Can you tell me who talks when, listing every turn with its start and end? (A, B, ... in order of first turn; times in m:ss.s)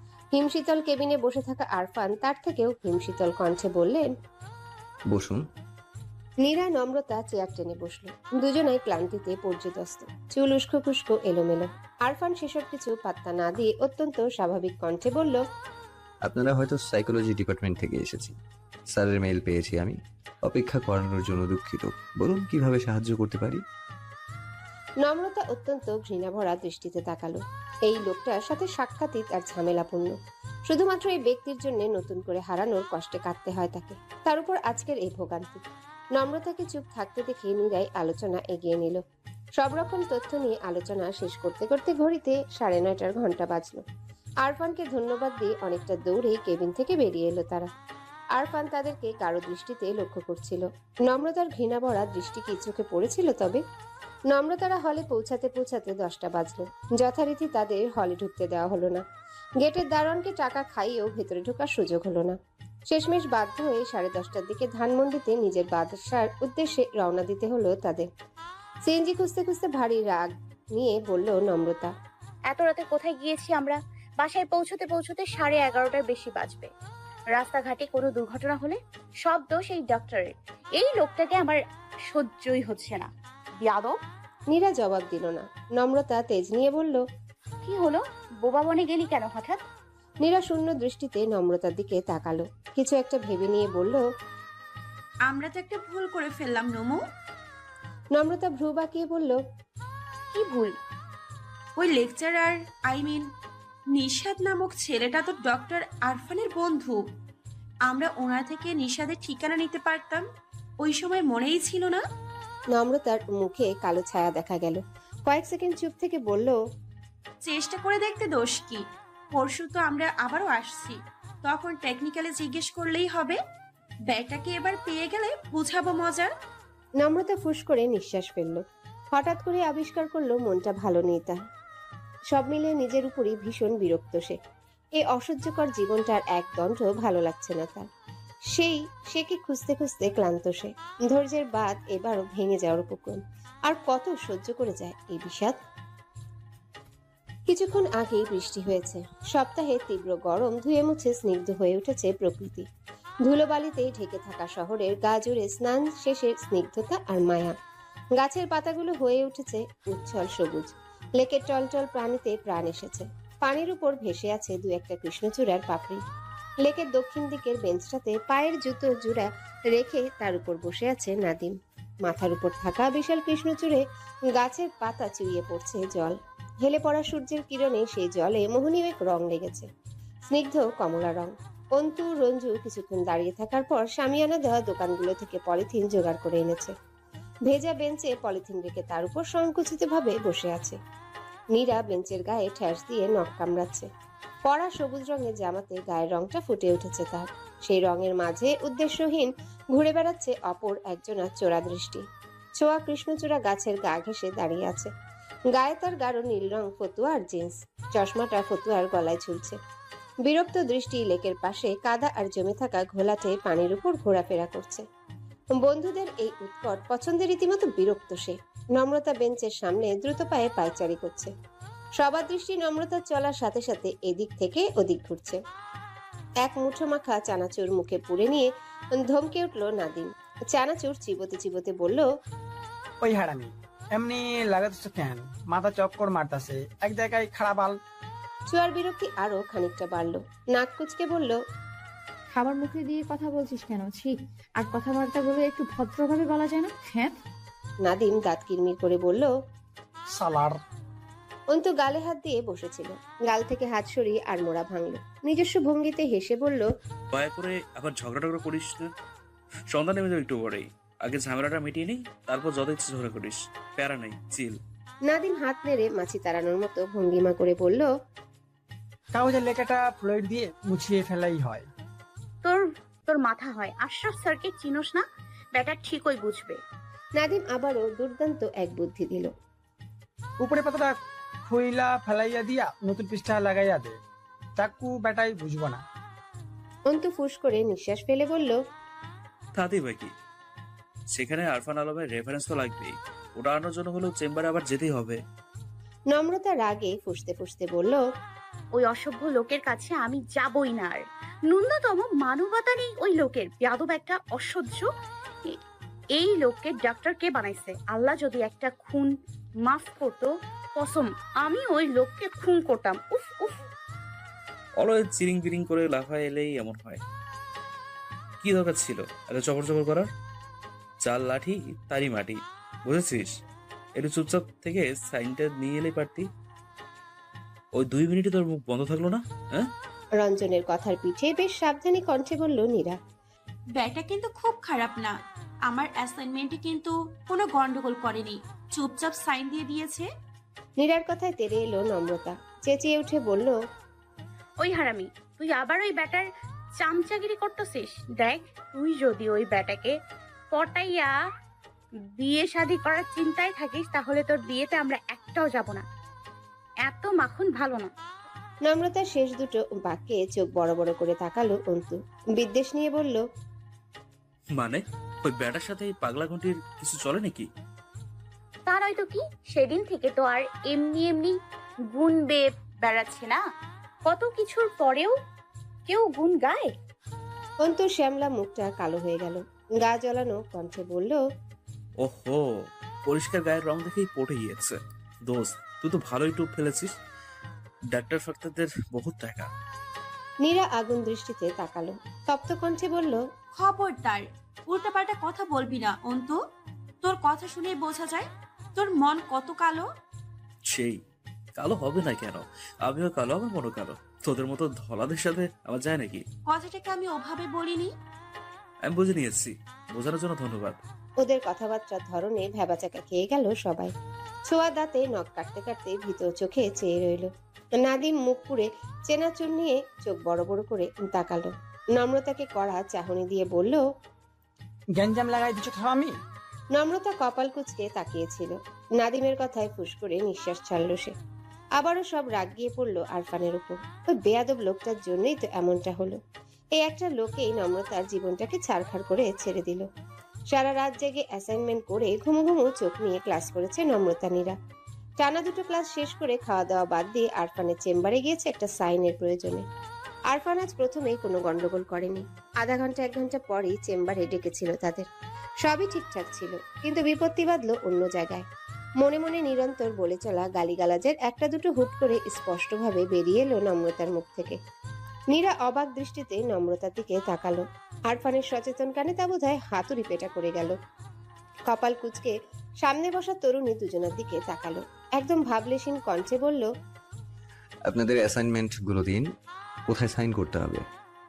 0:00.3-0:04.1 A
0:05.1-0:05.4 B
0:06.4-0:15.4 A
0:16.2-0:18.4 B
0:18.9-0:23.6 B
0:25.0-0:30.2 A
0:30.7-0:35.6 A
0:36.1-0:39.0 A
0:39.6-0:43.8 A
0:44.4-0:47.7 A
0:48.3-0:53.6 A
0:54.3-0:59.0 A
0:59.6-1:02.4 A
1:02.9-1:08.1 A
1:08.8-1:11.9 A
1:12.5-1:16.7 C
1:17.3-1:23.1 C
1:23.6-1:24.0 C
1:24.5-1:27.0 A
1:27.6-1:29.6 C
1:30.2-1:34.0 A
1:35.3-1:37.0 D
1:38.1-1:39.4 A
1:40.3-1:40.7 C
1:41.8-1:43.2 D
1:43.9-1:47.0 D
1:47.9-1:50.2 D
1:50.8-1:52.0 D
1:52.7-1:56.6 A
1:57.4-1:58.8 D
1:59.3-2:03.4 D
2:04.1-2:06.3 D
2:07.0-2:11.4 A
2:12.3-2:14.4 A
2:15.0-2:17.9 A
2:18.5-2:25.6 A
2:27.5-2:32.7 A
2:33.2-2:37.5 A
2:38.2-2:46.0 A
2:46.6-2:59.7 A
3:00.3-3:06.7 A
3:07.5-3:10.8 A
3:11.5-3:13.9 A
3:14.4-3:22.0 A
3:22.6-3:24.9 A
3:25.5-3:29.6 A
3:30.2-3:34.8 A
3:35.5-3:41.3 A
3:42.0-3:45.4 A
3:46.4-3:52.1 A
3:53.0-3:57.8 E
3:58.5-4:01.4 A
4:02.3-4:07.1 F
4:07.8-4:09.3 A
4:10.1-4:10.6 E
4:11.5-4:16.7 A
4:17.1-4:18.9 G
4:19.7-4:24.6 G
4:25.1-4:27.9 A
4:29.1-4:31.7 E
4:32.4-4:36.6 C
4:37.2-4:39.3 A
4:40.4-4:44.0 E
4:44.6-4:45.8 E
4:46.9-4:48.6 A
4:49.5-4:50.1 G
4:51.1-4:55.2 G
4:56.1-4:58.0 A
4:58.7-5:04.9 C
5:06.1-5:13.6 C
5:14.8-5:17.0 G
5:18.4-5:20.1 G
5:21.0-5:23.3 G
5:24.0-5:26.3 G
5:27.7-5:29.7 G
5:30.2-5:33.0 A
5:33.8-5:35.1 D
5:35.7-5:40.1 D
5:40.8-5:43.5 A
5:44.6-5:46.3 C
5:46.8-5:49.9 C
5:50.5-5:51.1 C
5:52.2-5:55.8 C
5:56.8-5:57.9 C
5:58.6-6:03.2 A
6:04.6-6:07.5 G
6:08.6-6:11.4 C
6:11.9-6:13.4 C
6:14.0-6:15.1 C
6:15.9-6:16.7 C
6:17.6-6:21.2 A
6:22.0-6:22.4 G
6:23.0-6:26.9 G
6:27.9-6:29.5 G
6:30.4-6:33.2 A
6:33.5-6:36.4 D
6:37.0-6:39.8 D
6:40.7-6:41.0 G
6:41.6-6:46.2 G
6:46.5-6:47.9 D
6:48.8-6:50.8 G
6:51.2-6:53.9 A
6:54.5-7:03.8 A
7:05.0-7:06.1 E
7:06.7-7:11.1 A
7:11.8-7:16.2 A
7:16.8-7:19.9 A
7:20.5-7:24.6 A
7:25.2-7:29.6 A
7:30.3-7:35.1 A
7:35.6-7:38.4 A
7:39.0-7:44.6 A
7:45.3-7:50.7 A
7:51.7-7:56.7 A
7:57.8-7:59.3 B
7:59.9-8:00.9 B